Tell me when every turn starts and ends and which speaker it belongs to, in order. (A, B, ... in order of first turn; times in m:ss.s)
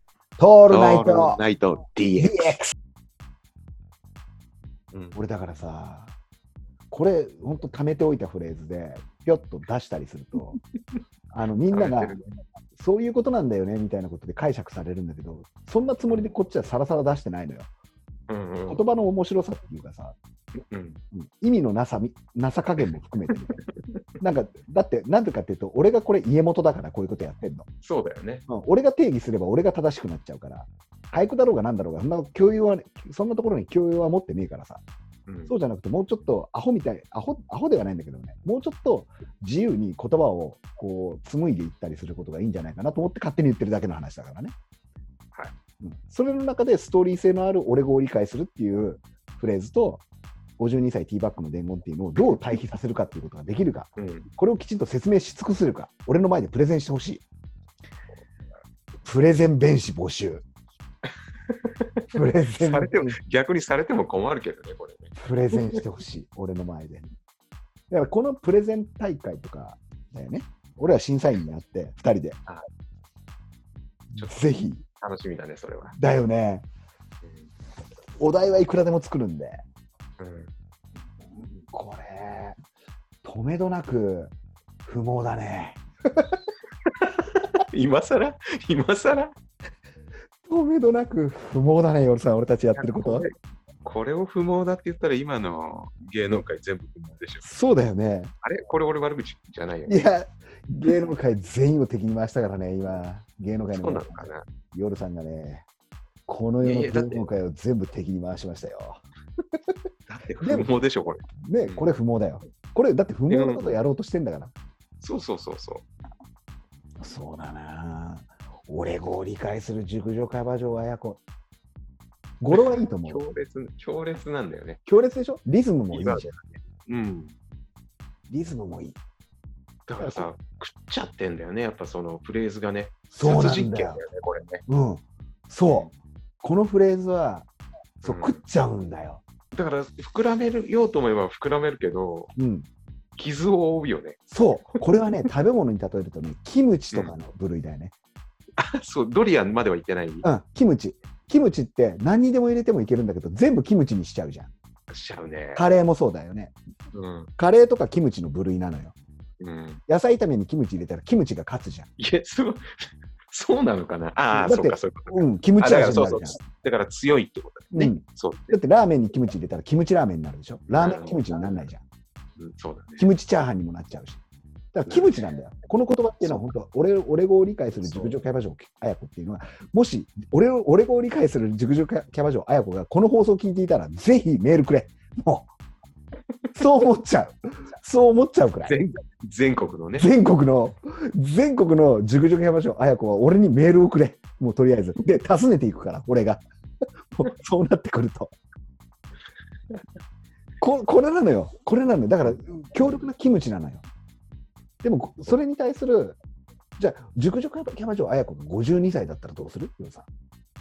0:00.4-0:01.4 A
0:00.7-0:02.5 B
0:02.2-0:02.7 A
0:04.9-0:05.2 B
0:05.1-0:06.1 A
0:06.9-0:10.6 A
0:11.3-0:12.2 A
0:11.7-0:12.4 B
0:12.8-0:17.7 A
0:18.3-0:18.8 B
0:18.7-0:20.2 A
0:20.7-0:21.0 B
0:21.1-0:23.6 A
0:24.2-0:27.7 A
0:27.8-0:28.4 B
0:28.5-0:34.8 A
0:35.3-0:35.5 B
0:35.5-0:44.5 A
0:45.8-0:50.0 A
0:50.6-0:57.2 A
0:54.0-0:54.3 B
0:59.0-1:00.4 A
1:01.5-1:02.0 B
1:02.1-1:03.2 A
1:02.6-1:05.8 B
1:05.2-1:07.0 A
1:07.9-1:12.4 A
1:14.1-1:14.8 A
1:14.1-1:14.4 B
1:15.0-1:16.0 B
1:16.0-1:16.6 A
1:17.2-1:17.5 B
1:18.2-1:19.6 A
1:20.2-1:20.5 B
1:21.4-1:22.6 A
1:23.2-1:24.3 A
1:24.8-1:25.8 A
1:27.0-1:29.3 B
1:30.4-1:33.3 A
1:32.8-1:33.3 B
1:33.8-1:37.5 B
1:37.4-1:38.3 A
1:38.4-1:40.0 B
1:39.9-1:45.6 A
1:43.7-1:44.4 B
1:46.2-1:49.0 A
1:46.6-1:47.2 B
1:50.1-1:51.9 B
1:50.4-1:50.7 A
1:51.3-1:54.5 A
1:53.3-1:53.8 B
1:55.0-1:55.8 B
1:57.0-2:01.2 A
2:02.4-2:03.3 A
2:02.5-2:04.8 B
2:04.8-2:06.4 A
2:05.9-2:07.3 B
2:08.3-2:09.0 A
2:09.9-2:14.6 B
2:10.0-2:10.3 A
2:13.1-2:14.0 A
2:14.6-2:15.9 A
2:15.7-2:15.9 B
2:16.4-2:17.5 A
2:18.0-2:19.2 A
2:18.0-2:18.4 B
2:19.5-2:22.3 B
2:22.4-2:22.7 A
2:23.2-2:24.2 B
2:24.3-2:27.9 A
2:28.6-2:30.2 B
2:30.2-2:34.5 A
2:34.9-2:35.6 B
2:35.5-2:36.6 A
2:36.9-2:37.3 B
2:37.4-2:38.9 A
2:39.4-2:39.8 B
2:39.9-2:41.9 A
2:42.0-2:42.6 B
2:43.3-2:48.6 B
2:44.3-2:46.4 A
2:47.7-2:51.8 A
2:50.7-2:51.7 B
2:52.4-2:53.1 B
2:53.0-2:54.2 A
2:54.7-3:05.5 A
2:54.9-2:55.2 B
2:56.2-2:56.5 B
2:57.7-2:58.1 B
3:06.6-3:08.8 A
3:08.6-3:10.1 B
3:10.0-3:16.4 A
3:17.1-3:18.3 A
3:20.6-3:23.8 A
3:24.8-3:26.2 A
3:26.8-3:30.1 A